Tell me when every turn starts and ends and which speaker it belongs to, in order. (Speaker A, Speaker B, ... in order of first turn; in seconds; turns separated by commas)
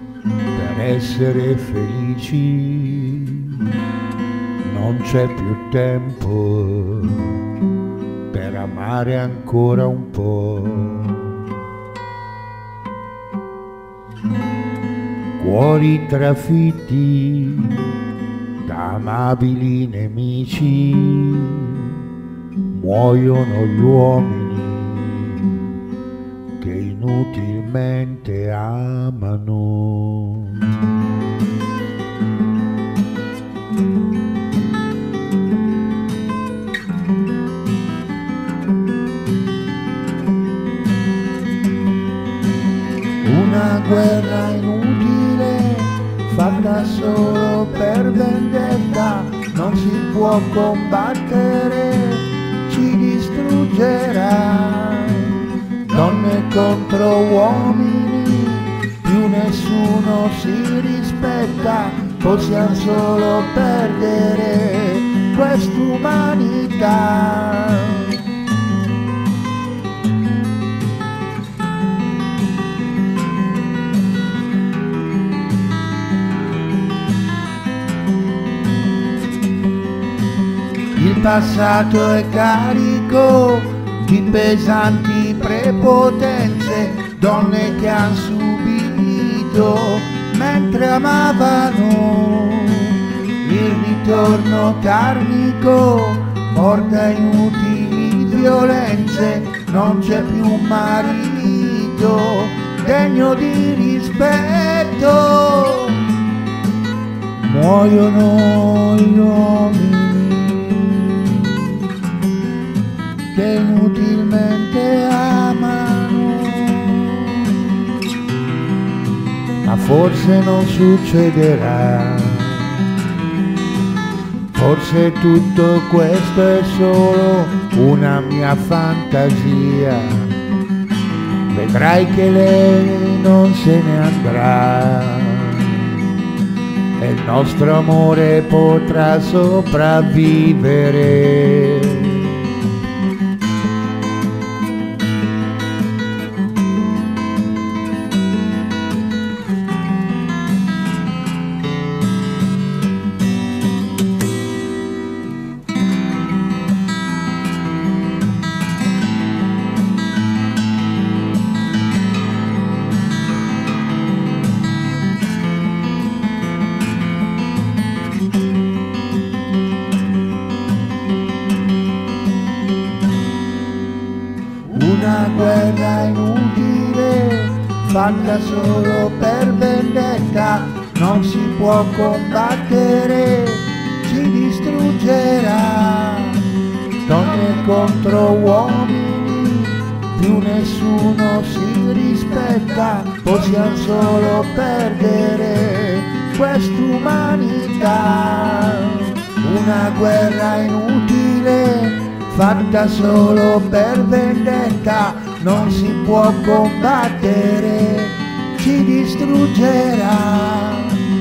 Speaker A: 0.5-3.8, Speaker A: 4.6-7.5, Speaker A: 8.3-11.5, Speaker A: 15.4-18.0, Speaker A: 18.6-22.1, Speaker A: 22.7-25.8, Speaker A: 26.6-30.9, Speaker A: 43.2-68.2, Speaker A: 80.9-106.1, Speaker A: 107.3-111.8, Speaker A: 113.3-117.8, Speaker A: 119.6-122.9, Speaker A: 124.5-130.4, Speaker A: 131.5-136.1, Speaker A: 137.0-142.5, Speaker A: 174.7-186.5, Speaker A: 187.0-211.1